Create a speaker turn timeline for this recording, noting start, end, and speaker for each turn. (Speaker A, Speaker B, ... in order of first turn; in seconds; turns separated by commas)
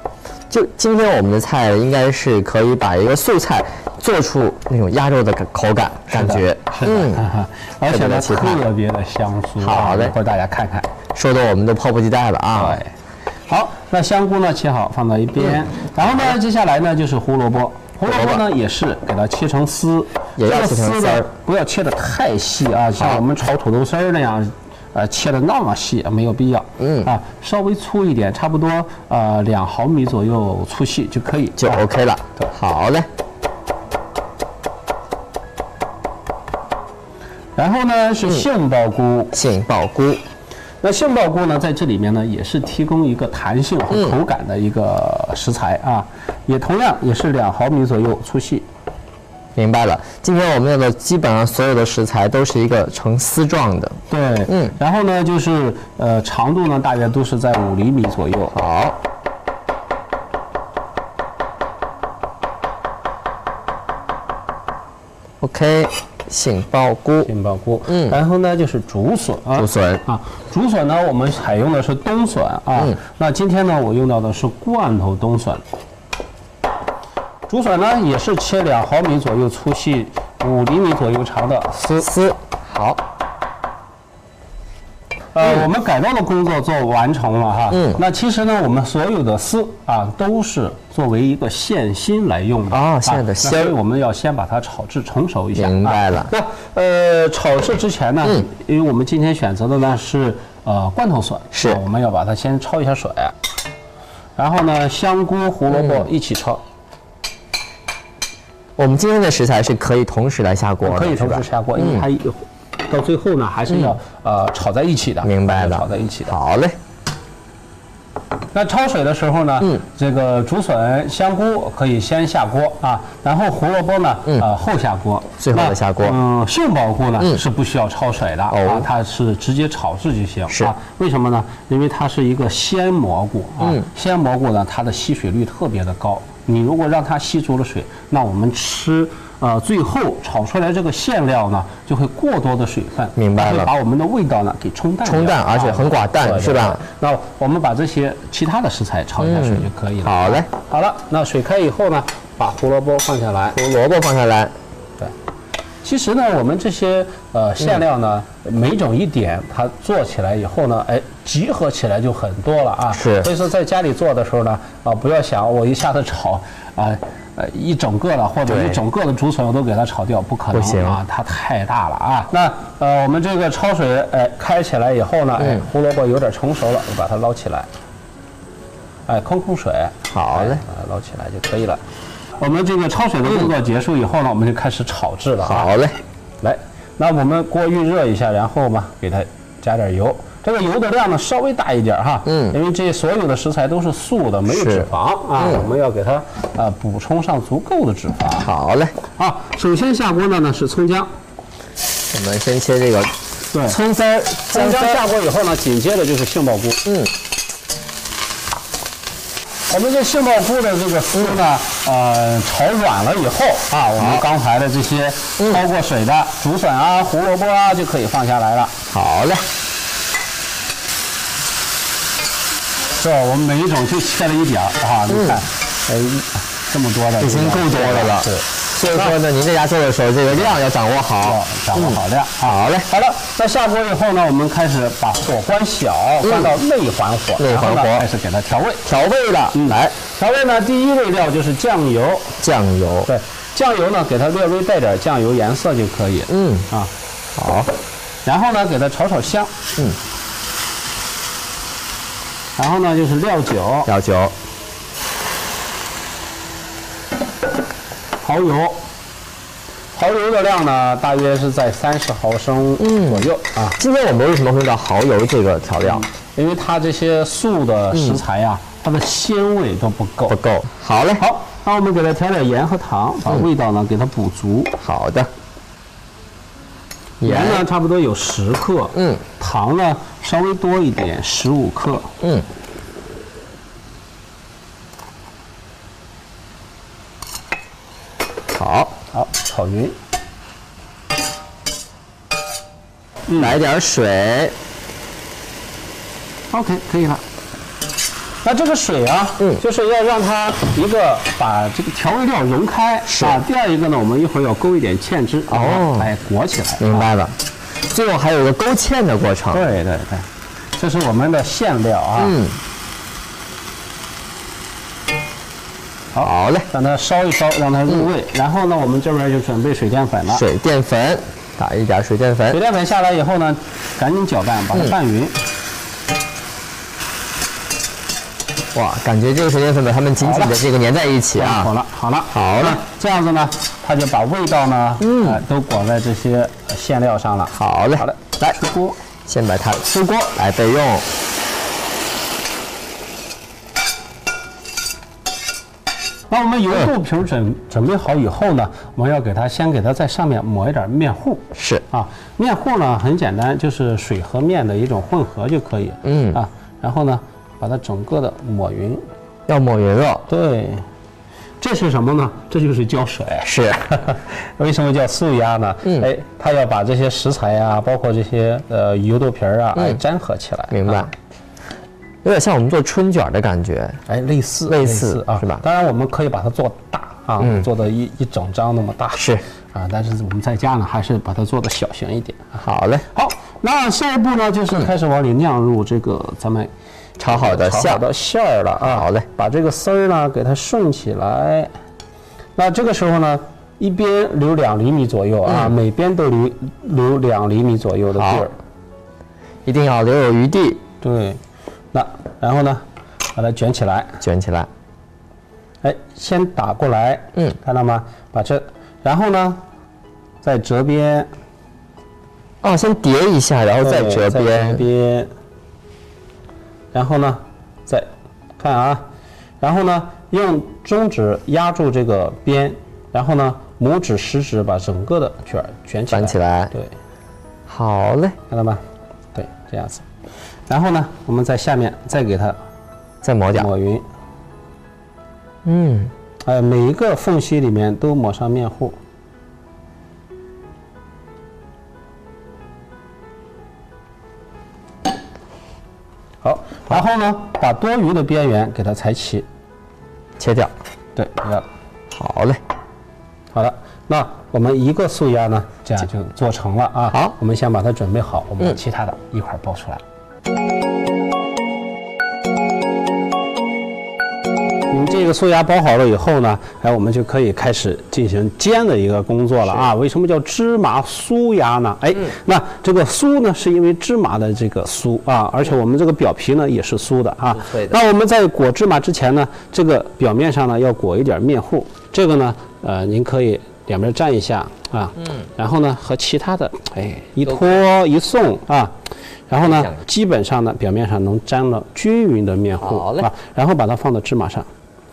Speaker A: 0.5-7.3, Speaker B: 6.1-10.9, Speaker A: 7.9-8.6, Speaker A: 9.6-10.2, Speaker A: 11.2-12.8, Speaker B: 12.6-12.9, Speaker B: 13.5-31.9, Speaker A: 18.1-18.4, Speaker A: 20.4-21.3, Speaker A: 23.0-23.2, Speaker A: 26.8-27.1, Speaker A: 31.6-33.1, Speaker B: 37.6-39.4, Speaker A: 39.3-40.2, Speaker B: 40.8-48.7, Speaker A: 43.9-44.2, Speaker A: 49.6-54.8, Speaker B: 54.1-58.5, Speaker A: 58.5-59.0, Speaker A: 65.4-67.3, Speaker B: 67.2-75.6, Speaker A: 67.9-68.2, Speaker A: 69.6-70.0, Speaker B: 77.5-82.1, Speaker A: 82.0-83.0, Speaker B: 85.3-103.3, Speaker A: 85.4-85.7, Speaker A: 87.7-88.0, Speaker A: 92.7-93.7, Speaker A: 95.6-96.3, Speaker A: 101.5-101.8, Speaker B: 104.4-106.6, Speaker A: 105.7-106.1, Speaker A: 108.8-112.1, Speaker B: 110.8-116.4, Speaker A: 115.2-116.8, Speaker B: 118.5-153.6, Speaker A: 125.4-126.2, Speaker A: 128.5-128.9, Speaker A: 133.6-133.9, Speaker A: 143.2-143.7, Speaker A: 145.1-146.8, Speaker A: 149.2-150.5, Speaker A: 153.5-154.5, Speaker B: 155.8-177.7, Speaker A: 162.9-163.3, Speaker A: 168.5-168.8, Speaker A: 170.5-171.0, Speaker B: 179.1-181.8, Speaker A: 180.1-180.6, Speaker B: 182.4-185.7, Speaker A: 185.4-186.0, Speaker B: 186.4-198.5, Speaker A: 192.3-192.6, Speaker A: 194.5-195.7, Speaker A: 198.4-199.0, Speaker B: 199.2-201.1, Speaker A: 202.1-203.1, Speaker B: 203.5-206.8, Speaker A: 204.5-205.0, Speaker A: 206.9-207.1, Speaker B: 209.7-218.8, Speaker A: 213.7-214.2, Speaker A: 218.9-219.4, Speaker B: 223.0-229.2, Speaker A: 225.1-225.4, Speaker A: 227.2-232.9, Speaker B: 230.3-230.6, Speaker B: 231.2-238.9, Speaker A: 236.2-236.5, Speaker A: 237.4-238.1, Speaker A: 238.8-239.9, Speaker B: 239.5-242.4, Speaker A: 242.4-243.1, Speaker B: 243.1-246.9, Speaker A: 246.3-246.7, Speaker A: 247.4-247.7, Speaker B: 248.3-249.5, Speaker B: 252.6-253.9, Speaker A: 253.9-254.3, Speaker B: 258.2-258.8, Speaker B: 259.9-263.8, Speaker A: 262.8-266.1, Speaker B: 265.8-270.4, Speaker A: 267.9-268.2, Speaker A: 270.3-271.2, Speaker B: 271.2-274.7, Speaker A: 274.8-275.3, Speaker A: 277.2-277.6, Speaker B: 277.2-282.1, Speaker A: 278.9-279.2, Speaker A: 282.2-282.5, Speaker A: 288.5-289.0, Speaker B: 289.1-290.0, Speaker B: 293.3-293.6, Speaker A: 293.4-294.6, Speaker B: 296.5-297.2, Speaker B: 298.4-307.1, Speaker A: 303.1-303.4, Speaker A: 305.5-306.1, Speaker A: 306.8-307.4, Speaker A: 307.9-309.6, Speaker B: 309.5-310.3, Speaker B: 310.8-312.4, Speaker A: 312.2-312.6, Speaker B: 316.1-320.4, Speaker A: 316.2-316.7, Speaker A: 320.3-322.6, Speaker B: 322.5-325.4, Speaker A: 328.7-331.7, Speaker B: 330.2-330.6, Speaker B: 331.4-339.0, Speaker A: 332.3-332.8, Speaker A: 335.0-335.4, Speaker A: 337.5-338.6, Speaker A: 339.3-341.1, Speaker B: 339.9-340.2, Speaker B: 346.3-359.0, Speaker A: 351.6-351.8, Speaker A: 356.0-356.4, Speaker A: 359.5-360.3, Speaker B: 360.3-360.8, Speaker B: 361.6-371.1, Speaker A: 363.4-363.9, Speaker A: 369.8-370.0, Speaker A: 370.7-371.1, Speaker A: 372.2-374.0, Speaker B: 374.1-382.6, Speaker A: 374.7-375.6, Speaker A: 377.4-377.7, Speaker A: 379.2-379.4, Speaker A: 382.6-383.1, Speaker B: 383.1-386.7, Speaker A: 387.2-388.0, Speaker B: 387.2-391.7, Speaker A: 388.8-389.3, Speaker B: 392.6-398.6, Speaker A: 395.5-395.8, Speaker A: 398.1-398.5, Speaker A: 399.7-400.8, Speaker B: 401.0-401.4, Speaker B: 401.9-402.8, Speaker B: 403.4-404.2, Speaker A: 404.2-404.7, Speaker B: 405.8-409.6, Speaker B: 410.4-411.3, Speaker A: 412.6-414.8, Speaker B: 413.8-415.3, Speaker B: 416.9-418.1, Speaker B: 418.6-419.0, Speaker B: 419.6-426.9, Speaker A: 426.1-426.7, Speaker A: 427.7-428.4, Speaker B: 428.5-428.8, Speaker B: 429.4-430.1, Speaker B: 430.7-432.6, Speaker A: 433.2-433.7, Speaker B: 433.5-434.0, Speaker A: 435.6-436.1, Speaker B: 436.4-439.0, Speaker B: 446.4-449.5, Speaker A: 450.4-450.7, Speaker B: 451.2-451.7, Speaker A: 452.1-452.6, Speaker B: 453.5-460.0, Speaker B: 464.9-488.9, Speaker A: 477.5-478.0, Speaker A: 487.5-487.8, Speaker B: 489.5-494.7, Speaker A: 489.6-490.0, Speaker A: 492.8-493.3